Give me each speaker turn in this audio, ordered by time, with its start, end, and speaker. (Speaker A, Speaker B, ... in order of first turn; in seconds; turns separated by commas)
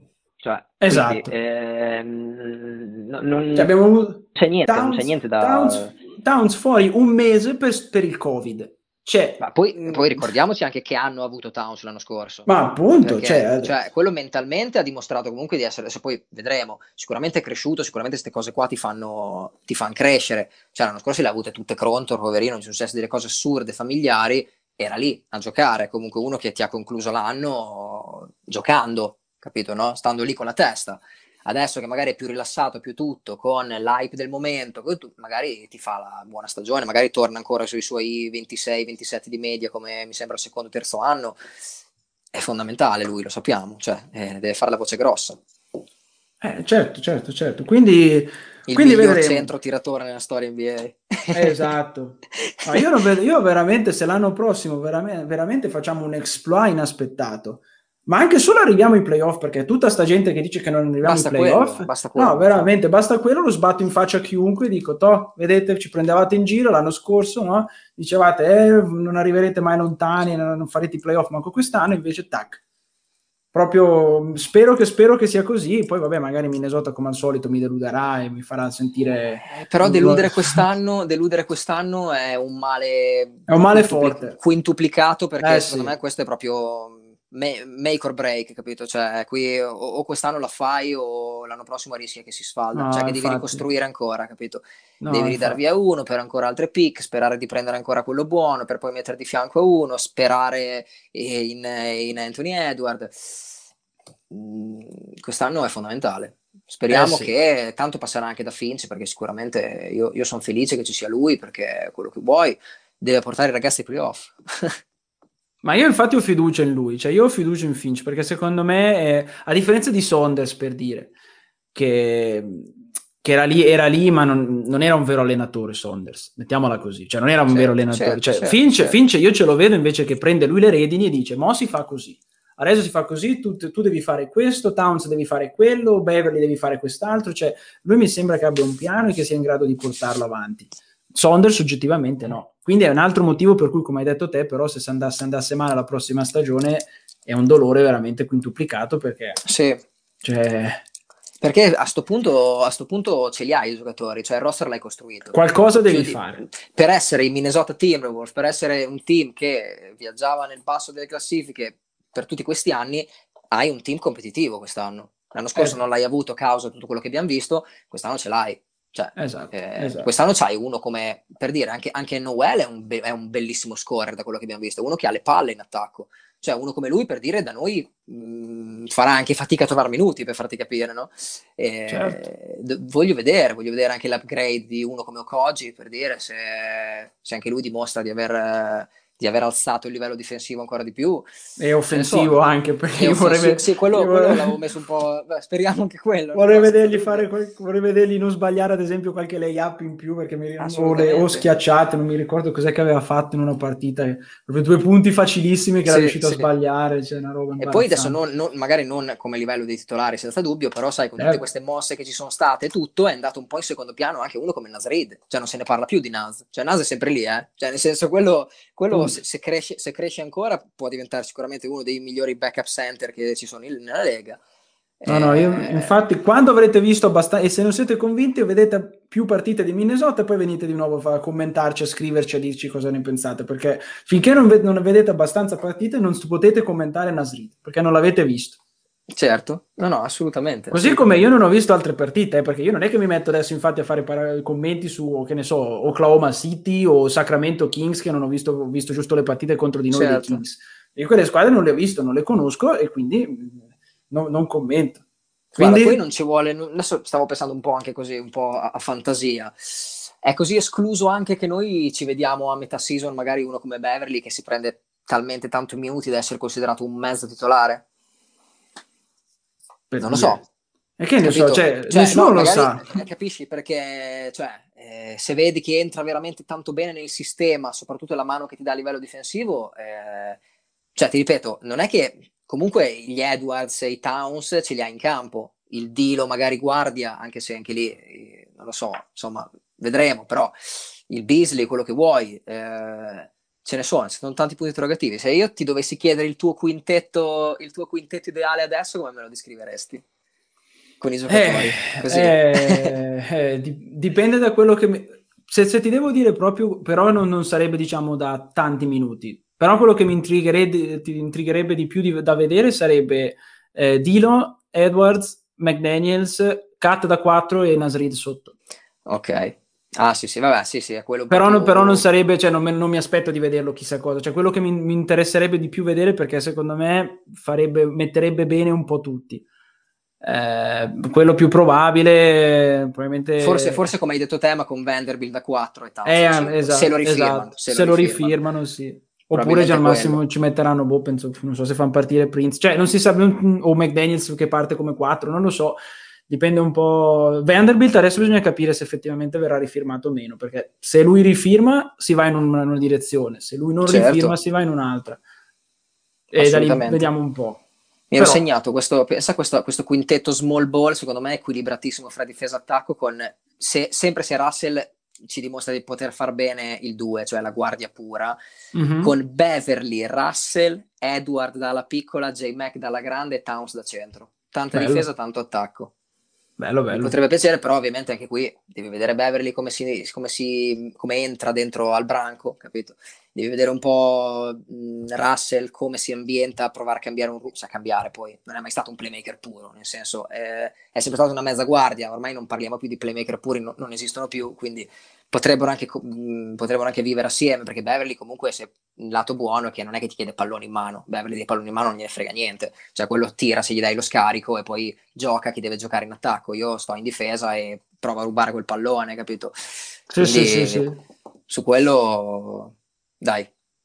Speaker A: 0.4-3.7, Speaker B: 0.8-1.3, Speaker B: 3.5-10.2, Speaker A: 4.3-6.0, Speaker A: 9.4-12.5, Speaker B: 12.5-13.7, Speaker A: 13.0-41.4, Speaker A: 42.3-45.4, Speaker B: 46.4-49.5, Speaker A: 48.7-51.6, Speaker B: 51.3-72.6, Speaker A: 61.0-62.7, Speaker B: 73.5-80.6, Speaker A: 79.5-103.5, Speaker B: 83.5-84.4, Speaker B: 85.4-85.9, Speaker B: 92.7-93.7, Speaker B: 95.0-95.6, Speaker A: 104.3-114.8, Speaker B: 106.9-107.3, Speaker B: 115.6-121.1, Speaker B: 121.7-149.4, Speaker A: 127.5-129.0, Speaker A: 149.4-149.8, Speaker B: 150.2-150.8, Speaker A: 151.4-191.3, Speaker B: 155.3-156.4, Speaker B: 169.2-170.1, Speaker B: 181.9-182.2, Speaker B: 191.6-194.5, Speaker A: 191.9-192.4, Speaker A: 192.9-197.3, Speaker B: 196.3-208.2, Speaker A: 200.6-201.5, Speaker A: 205.8-206.5, Speaker A: 207.6-224.4, Speaker B: 218.9-219.2, Speaker A: 225.0-225.9, Speaker B: 225.1-238.6, Speaker A: 239.1-241.3, Speaker B: 240.7-255.0, Speaker A: 249.9-250.4, Speaker A: 255.5-267.8, Speaker B: 255.6-256.0, Speaker B: 269.9-270.4, Speaker A: 270.0-270.5, Speaker B: 271.0-272.9, Speaker A: 271.2-280.4, Speaker A: 280.9-290.5, Speaker A: 291.1-300.0, Speaker A: 301.0-303.0, Speaker B: 301.3-318.6, Speaker A: 319.1-322.1, Speaker B: 321.3-329.4, Speaker B: 330.2-333.9, Speaker A: 333.4-338.4, Speaker B: 336.1-355.2, Speaker A: 339.3-340.2, Speaker A: 353.8-354.4, Speaker B: 356.3-357.6, Speaker A: 356.4-357.1, Speaker A: 358.1-368.4, Speaker B: 358.2-358.4, Speaker B: 368.7-369.1, Speaker A: 369.0-375.9, Speaker B: 374.7-375.1, Speaker B: 376.6-377.1, Speaker A: 376.9-409.5, Speaker B: 410.1-411.0, Speaker A: 410.2-410.9, Speaker A: 411.5-413.5